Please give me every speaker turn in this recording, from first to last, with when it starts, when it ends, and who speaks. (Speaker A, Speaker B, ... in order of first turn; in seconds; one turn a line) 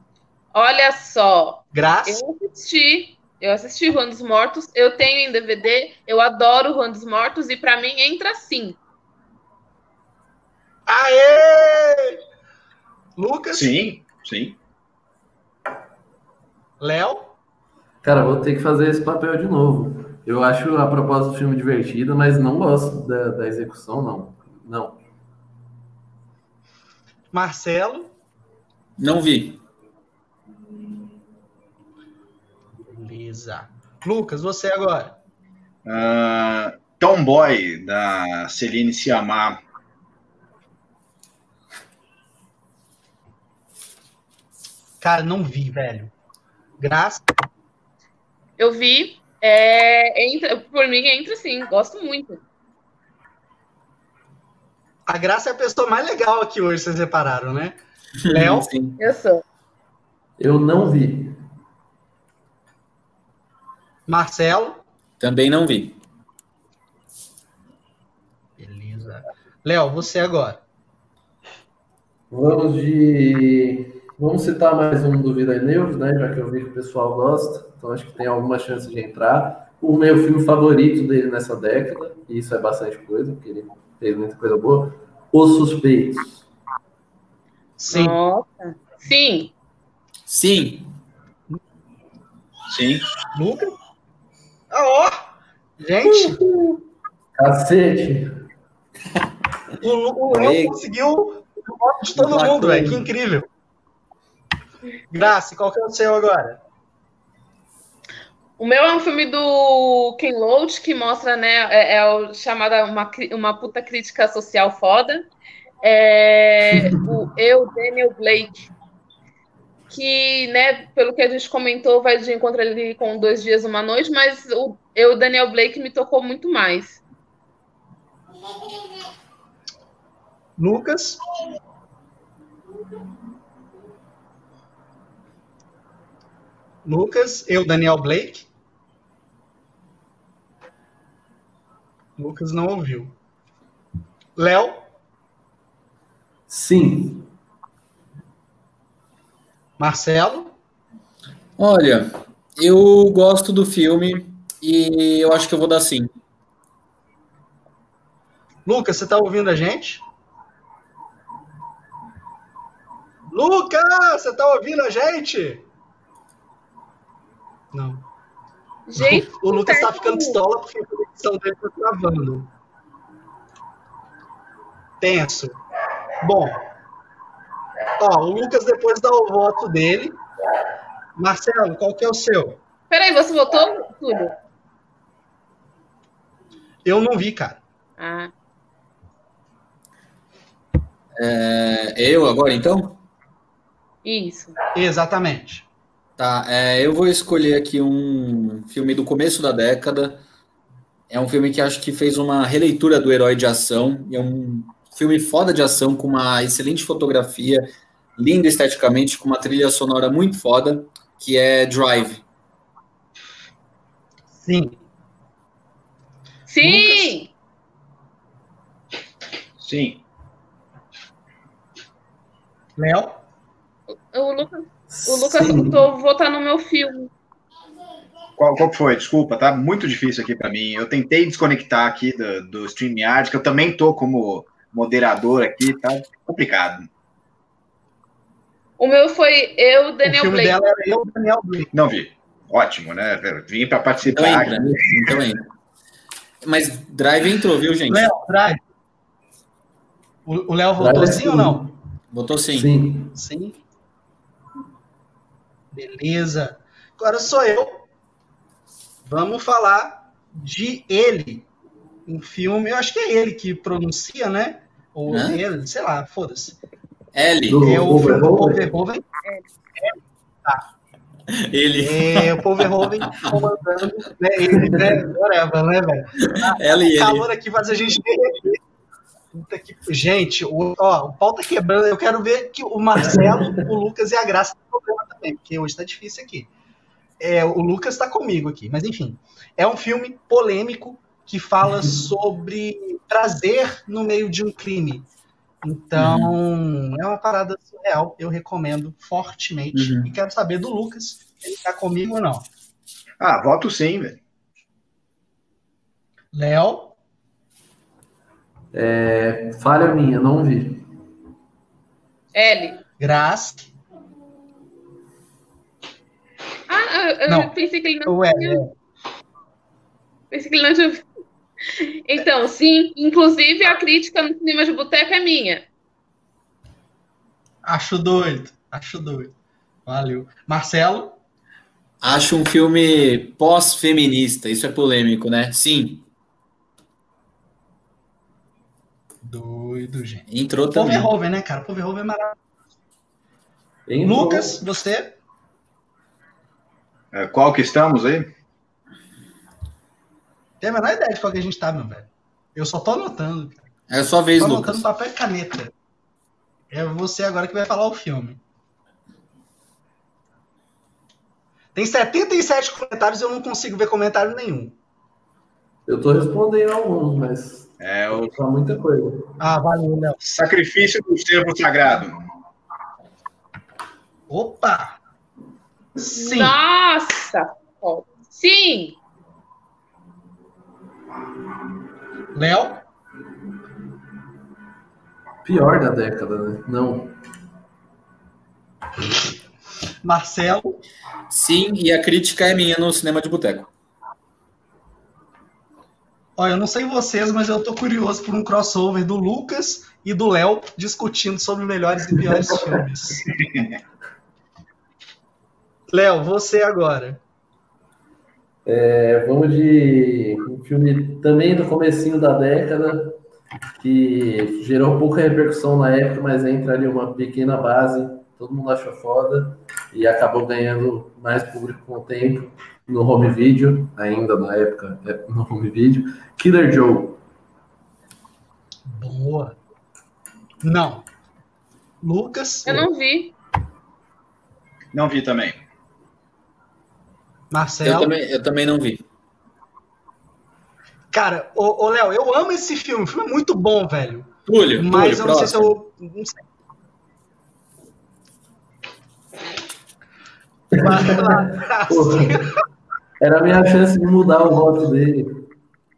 Speaker A: 0.5-8.8
Speaker B: 1.7-2.2
Speaker B: 10.9-12.2
Speaker B: 13.2-13.7
Speaker C: 13.5-14.6
Speaker B: 16.8-17.3
Speaker D: 18.0-25.0
Speaker B: 27.3-28.1
Speaker E: 29.0-29.6
Speaker B: 32.9-35.2
Speaker C: 35.8-39.6
Speaker B: 45.0-46.1
Speaker B: 46.8-47.3
Speaker A: 48.6-52.4
Speaker B: 55.1-58.7
Speaker E: 58.2-59.0
Speaker A: 59.0-59.4
Speaker D: 60.4-61.4
Speaker B: 64.1-64.8
Speaker E: 65.2-66.0
Speaker B: 68.6-70.6
Speaker D: 72.3-86.4
Speaker B: 87.8-88.2
Speaker A: 87.9-89.5
Speaker E: 90.3-90.9
Speaker C: 92.7-93.0
Speaker B: 93.3-93.7
Speaker B: 94.7-96.4
Speaker D: 97.3-98.3
Speaker B: 99.8-103.5
Speaker E: 100.3-100.8
Speaker E: 102.1-103.1
Speaker B: 105.1-106.6
Speaker A: 108.6-115.3
Speaker A: 115.8-118.7
Speaker D: 116.7-117.0
Speaker A: 119.9-127.0
Speaker B: 130.6-131.2
Speaker B: 136.8-138.5
Speaker B: 142.2-143.1
Speaker B: 144.3-144.8
Speaker D: 146.5-147.3
Speaker B: 149.8-150.5
Speaker E: 151.6-156.1
Speaker B: 158.6-160.0
Speaker B: 163.3-165.7
Speaker B: 167.7-168.0
Speaker A: 168.9-170.4
Speaker B: 169.0-172.5
Speaker B: 175.0-175.6
Speaker B: 176.2-176.6
Speaker B: 178.0-180.2
Speaker B: 181.2-182.6
Speaker A: 182.9-184.3
Speaker B: 186.8-187.6
Speaker A: 188.0-188.3
Speaker E: 191.2-193.0
Speaker A: 194.0-194.6
Speaker B: 194.7-195.7
Speaker E: 196.2-200.2
Speaker E: 201.1-207.7
Speaker E: 208.2-212.2
Speaker B: 214.3-214.8
Speaker A: 216.5-217.3
Speaker B: 216.6-217.2
Speaker C: 219.6-220.0
Speaker B: 222.8-223.2
Speaker A: 223.9-227.1
Speaker D: 224.9-225.9
Speaker C: 228.4-236.9
Speaker A: 238.8-240.6
Speaker B: 240.0-241.7
Speaker C: 241.7-244.7
Speaker E: 244.1-245.5
Speaker E: 246.4-248.1
Speaker B: 247.9-248.6
Speaker B: 250.2-251.7
Speaker D: 250.8-251.7
Speaker E: 252.1-252.7
Speaker D: 252.5-253.1
Speaker B: 253.1-253.6
Speaker B: 255.7-257.9
Speaker B: 259.0-261.5
Speaker B: 262.1-266.6
Speaker E: 265.1-265.4
Speaker E: 267.1-267.7
Speaker D: 267.5-268.6
Speaker B: 267.6-269.0
Speaker B: 269.8-270.6
Speaker E: 271.3-273.4
Speaker B: 271.8-278.6
Speaker D: 274.5-274.9
Speaker E: 276.2-277.3
Speaker B: 279.3-286.5
Speaker D: 283.0-283.7
Speaker B: 287.2-295.1
Speaker B: 295.6-302.5
Speaker E: 295.9-296.3
Speaker E: 299.7-300.1
Speaker C: 303.2-304.2
Speaker B: 306.3-306.9
Speaker D: 308.7-310.9
Speaker A: 312.3-312.8
Speaker B: 313.0-313.7
Speaker A: 316.7-318.6
Speaker B: 318.1-318.7
Speaker A: 320.3-321.0
Speaker A: 321.7-325.6
Speaker B: 327.6-329.3
Speaker B: 329.9-331.2
Speaker E: 332.0-336.1
Speaker B: 339.2-342.4
Speaker E: 340.3-341.1
Speaker D: 343.9-344.6
Speaker B: 344.0-345.2
Speaker C: 347.1-348.3
Speaker B: 350.6-353.6
Speaker E: 353.9-354.8
Speaker B: 354.4-355.7
Speaker B: 356.7-358.4
Speaker B: 361.7-364.8
Speaker D: 365.9-369.4
Speaker C: 367.8-368.4
Speaker B: 369.4-370.2
Speaker C: 370.2-372.2
Speaker B: 374.3-375.0
Speaker B: 376.0-376.6
Speaker A: 376.1-379.0
Speaker B: 382.3-382.8
Speaker D: 385.4-387.1
Speaker B: 390.0-390.8
Speaker E: 391.3-393.7
Speaker B: 396.4-403.3
Speaker B: 405.9-407.2
Speaker D: 408.6-413.2
Speaker D: 413.8-427.2
Speaker B: 428.9-429.6
Speaker B: 430.6-431.1
Speaker B: 432.0-432.9
Speaker A: 432.6-433.3
Speaker C: 434.9-435.6
Speaker B: 437.5-438.1
Speaker E: 437.8-439.0
Speaker B: 441.1-446.4
Speaker E: 444.5-445.7
Speaker B: 450.7-452.5
Speaker D: 450.7-452.6
Speaker D: 453.2-455.4